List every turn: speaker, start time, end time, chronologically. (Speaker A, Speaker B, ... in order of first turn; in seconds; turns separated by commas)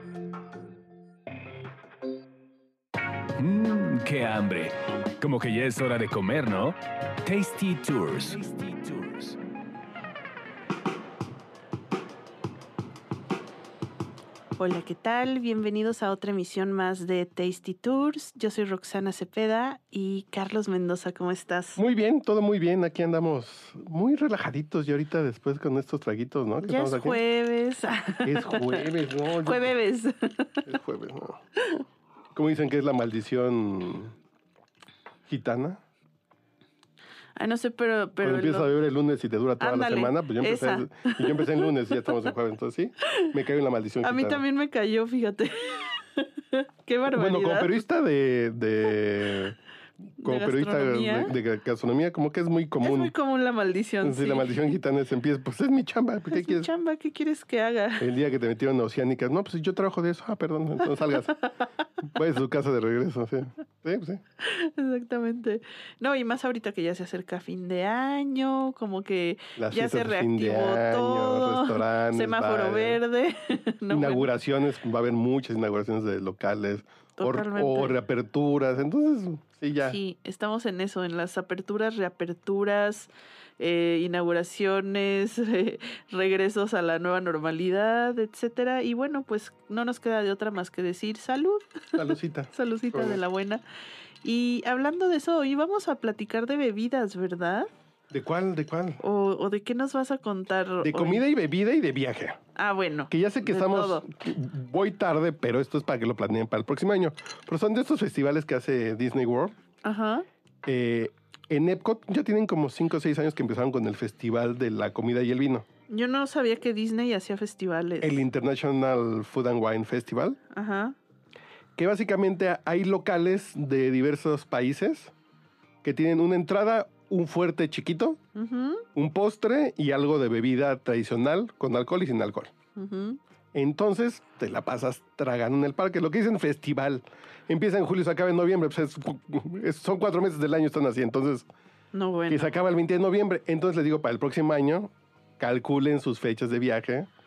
Speaker A: 3.4-9.4, Speaker B: 14.6-21.8, Speaker C: 21.8-27.2, Speaker B: 26.6-30.7, Speaker C: 28.2-29.7, Speaker C: 30.6-31.4, Speaker B: 31.6-31.8, Speaker C: 32.3-34.1, Speaker C: 35.3-35.8, Speaker B: 37.4-38.8, Speaker C: 38.2-44.4, Speaker B: 39.6-41.7, Speaker B: 44.0-47.8, Speaker C: 47.1-49.6, Speaker B: 50.2-51.4, Speaker C: 50.2-53.1, Speaker B: 52.8-54.7, Speaker C: 54.0-56.7, Speaker B: 56.3-58.1, Speaker C: 58.0-61.4, Speaker C: 62.1-64.2, Speaker B: 64.4-74.3, Speaker C: 69.6-73.0, Speaker C: 73.9-80.0, Speaker B: 77.2-78.0, Speaker B: 79.8-93.6, Speaker C: 91.9-93.2, Speaker B: 94.2-97.7, Speaker C: 98.1-99.0, Speaker B: 99.0-101.2, Speaker C: 100.8-102.4, Speaker B: 102.5-104.0, Speaker C: 103.1-109.6, Speaker B: 109.8-110.2, Speaker C: 110.7-115.7, Speaker B: 115.9-118.2, Speaker C: 118.0-120.4, Speaker B: 120.5-121.0, Speaker C: 121.8-125.1, Speaker C: 125.8-128.2, Speaker B: 128.3-128.8, Speaker C: 128.9-132.5, Speaker B: 132.8-133.2, Speaker C: 133.5-141.5, Speaker B: 141.9-142.5, Speaker C: 142.3-147.1